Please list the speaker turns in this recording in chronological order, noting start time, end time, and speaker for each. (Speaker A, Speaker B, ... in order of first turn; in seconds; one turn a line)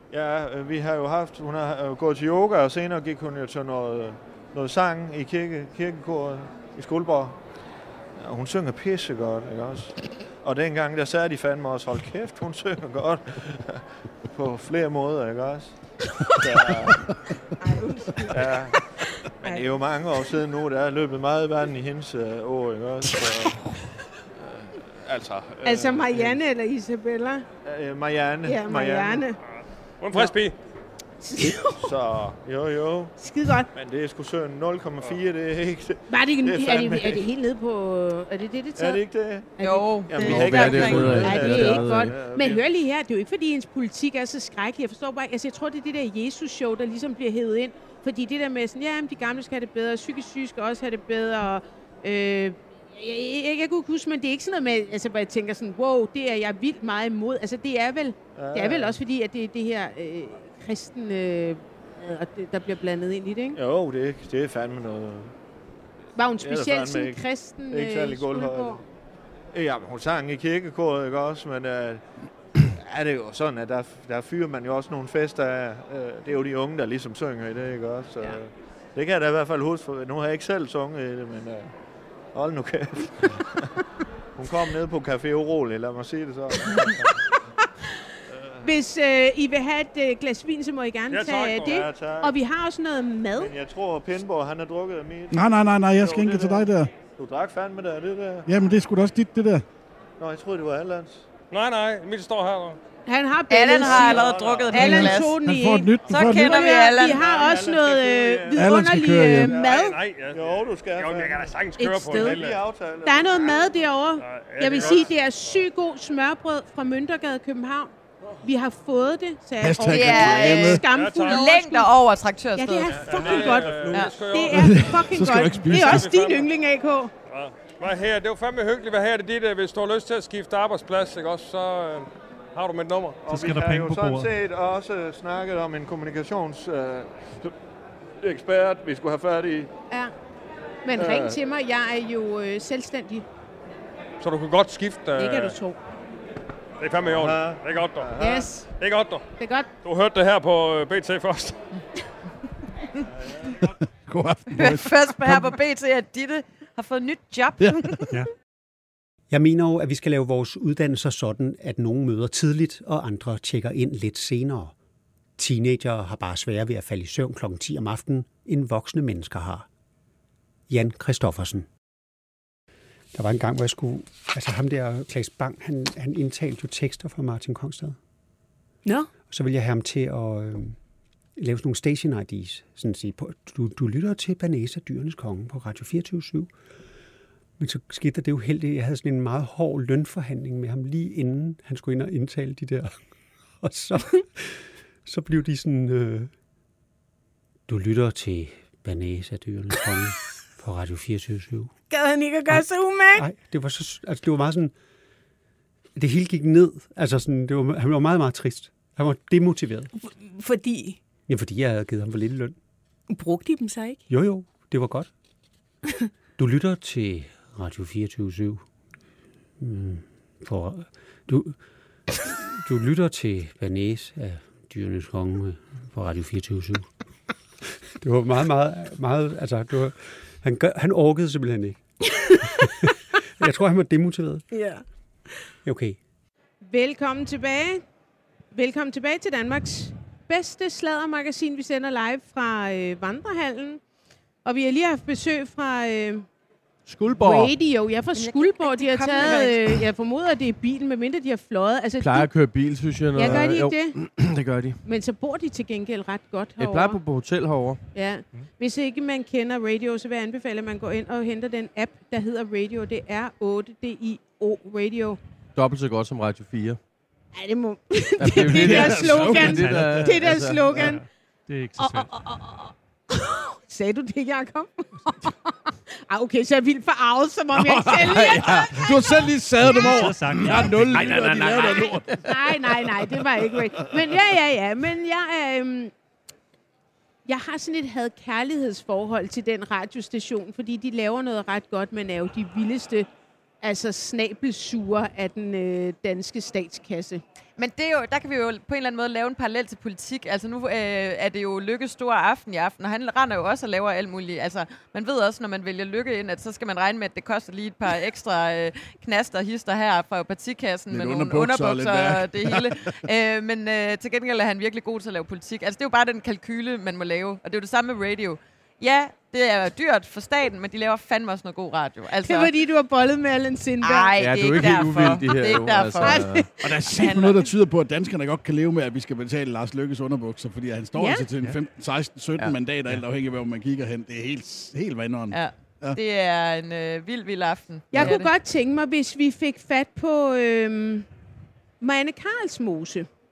Speaker A: 0.1-7.4
Speaker A: 8.2-17.2
Speaker B: 17.6-19.6
Speaker A: 18.3-18.8
Speaker A: 19.4-23.7
Speaker A: 24.4-26.4
Speaker B: 25.6-27.4
Speaker A: 27.6-29.3
Speaker B: 28.4-29.4
Speaker C: 29.5-30.6
Speaker B: 31.2-31.9
Speaker A: 31.8-33.2
Speaker B: 33.2-33.7
Speaker A: 33.7-37.3
Speaker B: 36.1-39.0
Speaker A: 38.8-42.6
Speaker B: 39.6-63.6
Speaker D: 39.6-41.6
Speaker E: 40.2-42.1
Speaker A: 58.4-59.0
Speaker A: 63.5-65.3
Speaker B: 66.2-68.8
Speaker A: 66.4-68.8
Speaker A: 69.5-72.1
Speaker A: 72.6-81.7
Speaker A: 82.3-83.8
Speaker A: 84.4-87.2
Speaker A: 88.3-88.7
Speaker B: 88.6-93.5
Speaker C: 91.1-91.7
Speaker A: 91.6-92.4
Speaker A: 93.4-98.5
Speaker F: 95.3-96.9
Speaker F: 98.5-99.7
Speaker A: 100.2-101.3
Speaker C: 101.5-102.8
Speaker B: 103.1-110.0
Speaker D: 103.5-105.4
Speaker A: 103.8-104.7
Speaker C: 104.0-104.7
Speaker F: 104.7-106.7
Speaker D: 106.1-107.2
Speaker A: 106.9-108.8
Speaker F: 108.6-109.5
Speaker A: 109.4-111.6
Speaker C: 109.7-112.6
Speaker B: 111.8-112.5
Speaker A: 112.1-113.6
Speaker B: 113.0-122.0
Speaker C: 114.2-115.1
Speaker F: 119.6-120.8
Speaker D: 119.9-123.1
Speaker C: 120.9-121.4
Speaker B: 122.6-127.1
Speaker A: 122.9-123.7
Speaker C: 123.0-125.1
Speaker D: 123.9-124.2
Speaker F: 124.5-126.2
Speaker C: 125.7-126.5
Speaker C: 127.3-133.2
Speaker A: 133.3-137.6
Speaker G: 133.3-134.3
Speaker A: 138.2-139.7
Speaker B: 140.8-143.2
Speaker A: 140.9-141.4
Speaker C: 144.2-145.6
Speaker B: 145.2-145.8
Speaker C: 146.8-148.1
Speaker A: 147.2-148.5
Speaker B: 148.2-148.7
Speaker C: 148.8-149.2
Speaker B: 149.4-149.7
Speaker C: 149.8-151.6
Speaker F: 154.1-155.6
Speaker D: 154.5-158.2
Speaker H: 159.3-164.8
Speaker H: 165.4-169.7
Speaker H: 170.7-171.7
Speaker H: 173.1-178.0
Speaker H: 179.3-180.8
Speaker H: 181.4-186.6
Speaker H: 187.6-196.3
Speaker H: 197.7-201.7
Speaker B: 201.9-203.2
Speaker H: 202.5-204.8
Speaker H: 206.0-210.0
Speaker B: 210.0-211.0
Speaker H: 211.3-212.6
Speaker B: 213.1-214.0
Speaker H: 214.1-215.1
Speaker H: 216.4-218.7
Speaker H: 219.6-221.6
Speaker H: 222.6-226.9
Speaker H: 228.0-231.8
Speaker H: 233.4-234.6
Speaker B: 234.5-234.8
Speaker H: 235.6-236.0
Speaker B: 236.6-237.8
Speaker B: 238.5-243.8
Speaker B: 244.4-246.3
Speaker E: 246.9-247.6
Speaker B: 247.2-252.6
Speaker D: 248.1-249.8
Speaker E: 252.0-254.8
Speaker B: 253.1-254.0
Speaker B: 254.8-257.0
Speaker E: 256.6-257.8
Speaker B: 257.9-265.2
Speaker E: 265.6-266.8
Speaker B: 267.3-271.0
Speaker E: 268.2-270.9
Speaker F: 268.3-270.2
Speaker G: 268.5-272.3
Speaker B: 271.8-279.9
Speaker F: 277.6-282.2
Speaker E: 278.0-278.7
Speaker G: 279.6-281.6
Speaker E: 280.4-282.5
Speaker B: 281.6-285.9
Speaker B: 287.3-293.1
Speaker B: 293.6-297.2
Speaker D: 297.6-322.5
Speaker F: 310.9-312.9
Speaker B: 322.2-326.9
Speaker D: 323.8-327.4
Speaker E: 324.2-326.6
Speaker F: 326.6-336.0
Speaker B: 331.0-331.3
Speaker D: 335.3-338.3
Speaker B: 337.9-341.1
Speaker B: 341.8-343.1